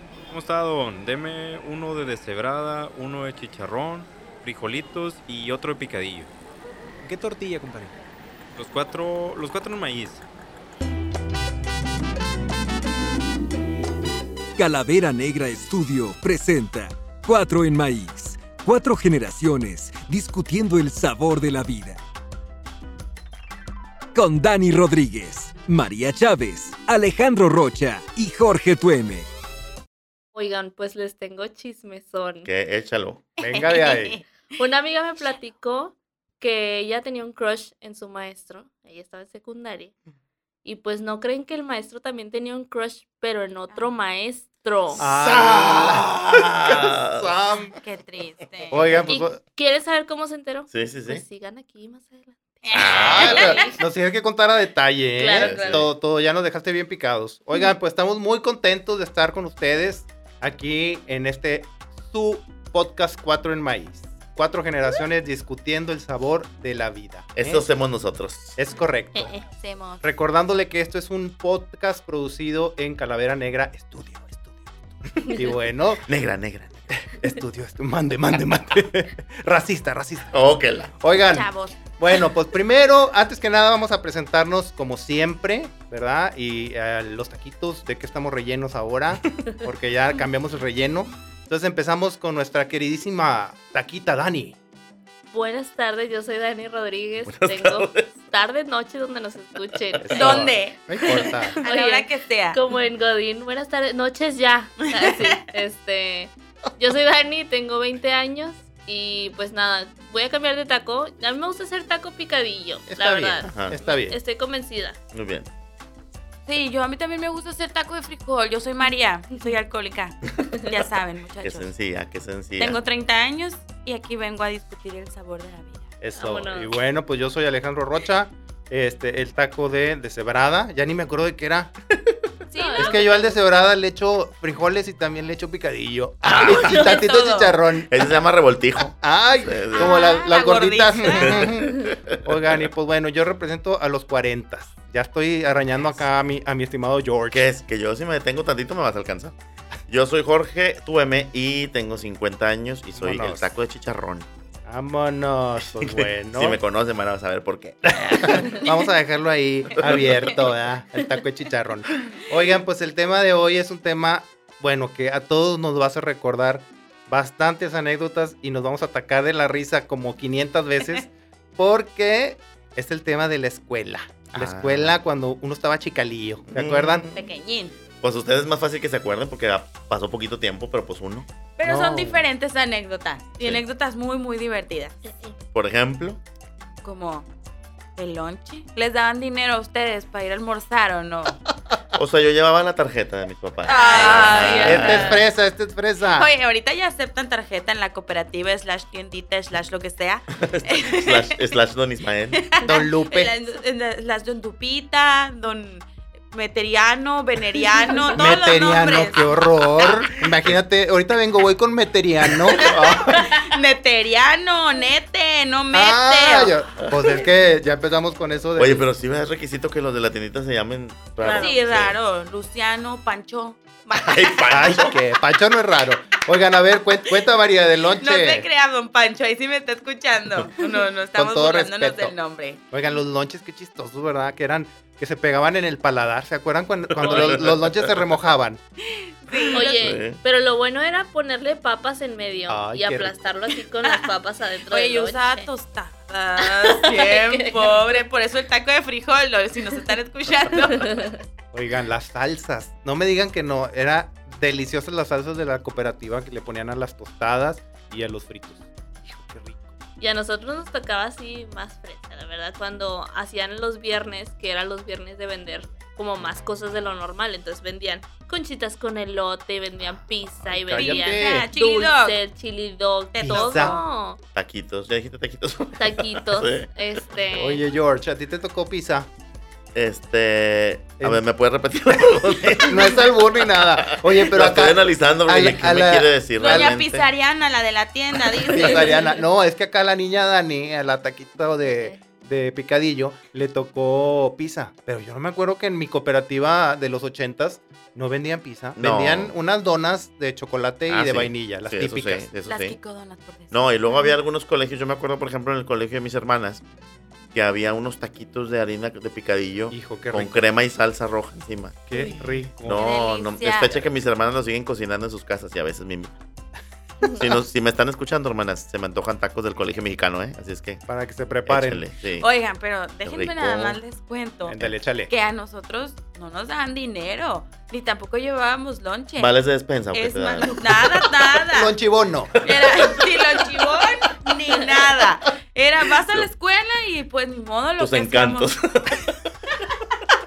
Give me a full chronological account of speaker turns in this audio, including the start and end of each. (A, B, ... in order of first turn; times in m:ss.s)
0:00.3-0:06.3 A
0:07.0-0:07.9 A
0:08.5-0:10.2 A
0:14.6-0:22.0 B
0:24.1-0:29.3 B
0:30.3-0:32.5 C
0:32.4-0:33.3 D
0:33.4-0:34.2 E
0:33.4-0:34.2 F
0:34.6-0:39.9 C
0:40.6-0:45.0 C
0:45.0-0:47.8 F
0:45.0-0:47.3 D
0:47.8-0:48.9 E
0:48.7-0:49.4 F
0:49.0-0:53.8 C
0:50.7-0:51.2 D
0:52.6-0:53.8 E
0:52.7-0:53.5 D
0:52.9-1:07.6 F
0:55.2-0:55.8 C
0:55.3-0:55.9 D
1:07.4-1:08.6 D
1:08.6-1:09.3 F
1:09.2-1:09.4 C
1:09.5-1:10.0 E
1:10.0-1:16.0 F
1:16.0-1:16.9 D
1:16.9-1:20.4 F
1:20.3-1:21.0 D
1:21.0-1:34.6 F
1:21.2-1:21.7 E
1:35.3-1:40.5 C
1:37.2-1:38.1 D
1:40.0-1:41.6 F
1:40.2-1:42.6 E
1:41.1-1:55.0 C
1:44.9-1:45.5 E
1:52.9-1:54.2 F
1:53.4-1:53.8 D
1:55.1-1:55.5 D
1:56.5-2:01.7 E
2:01.4-2:02.8 D
2:02.6-2:05.8 E
2:06.0-2:11.7 F
2:06.2-2:06.7 C
2:12.5-2:12.9 E
2:12.5-2:13.4 C
2:12.8-2:17.9 F
2:16.2-2:16.9 D
2:16.4-2:17.6 E
2:17.9-2:20.0 D
2:18.8-2:27.5 F
2:19.8-2:21.5 E
2:19.8-2:20.1 C
2:21.2-2:22.3 D
2:27.3-2:29.4 D
2:29.9-2:34.3 D
2:33.0-2:33.5 F
2:34.6-2:36.6 F
2:35.8-2:38.7 D
2:37.9-2:57.0 F
2:39.8-2:40.3 D
2:54.3-2:54.9 D
2:56.5-2:57.2 D
2:57.1-2:57.7 E
2:58.0-3:01.3 D
3:01.6-3:05.0 E
3:01.6-3:02.2 F
3:05.0-3:05.4 C
3:05.5-3:06.2 D
3:06.8-3:07.2 E
3:08.0-3:11.4 E
3:11.9-3:15.2 D
3:13.6-3:15.1 E
3:13.6-3:15.2 C
3:14.4-3:16.3 F
3:16.1-3:21.4 E
3:20.4-3:22.6 D
3:22.4-3:29.2 E
3:22.6-3:23.3 F
3:28.1-3:33.4 F
3:30.2-3:30.6 D
3:32.6-3:36.6 E
3:35.7-3:38.8 F
3:36.8-3:37.1 D
3:38.6-3:41.9 D
3:41.2-3:41.5 C
3:41.2-3:44.8 E
3:43.9-3:44.9 D
3:44.5-3:48.4 F
3:48.0-3:52.6 E
3:51.1-3:52.1 F
3:52.7-3:58.6 F
3:56.9-3:58.1 D
3:57.0-3:57.4 C
3:58.8-4:00.0 E
3:59.5-4:05.5 C
3:59.6-4:00.2 D
4:02.5-4:03.2 F
4:03.8-4:04.1 E
4:04.7-4:11.2 E
4:06.6-4:07.8 C
4:10.6-4:11.2 C
4:11.5-4:19.8 F
4:20.0-4:34.2 C
4:30.5-4:31.5 F
4:30.8-4:32.2 E
4:33.1-4:33.8 E
4:33.2-4:33.8 F
4:34.3-4:37.3 D
4:35.8-4:37.6 C
4:37.3-4:39.1 F
4:39.7-4:47.0 D
4:42.6-4:46.7 F
4:46.4-4:49.1 E
4:48.5-5:02.3 F
4:58.8-4:59.3 D
5:00.9-5:02.8 D
5:02.4-5:04.1 E
5:03.5-5:06.6 D
5:07.3-5:16.2 D
5:09.7-5:10.5 F
5:11.9-5:12.9 F
5:12.7-5:13.9 E
5:17.1-5:20.8 D
5:20.9-5:21.8 F
5:21.4-5:22.2 D
5:22.2-5:24.6 E
5:23.0-5:23.8 D
5:24.5-5:25.1 F
5:25.1-5:29.3 E
5:29.2-5:31.1 D
5:29.9-5:31.7 E
5:31.5-5:32.4 F
5:32.4-5:33.8 D
5:32.4-5:38.5 E
5:37.8-5:39.7 D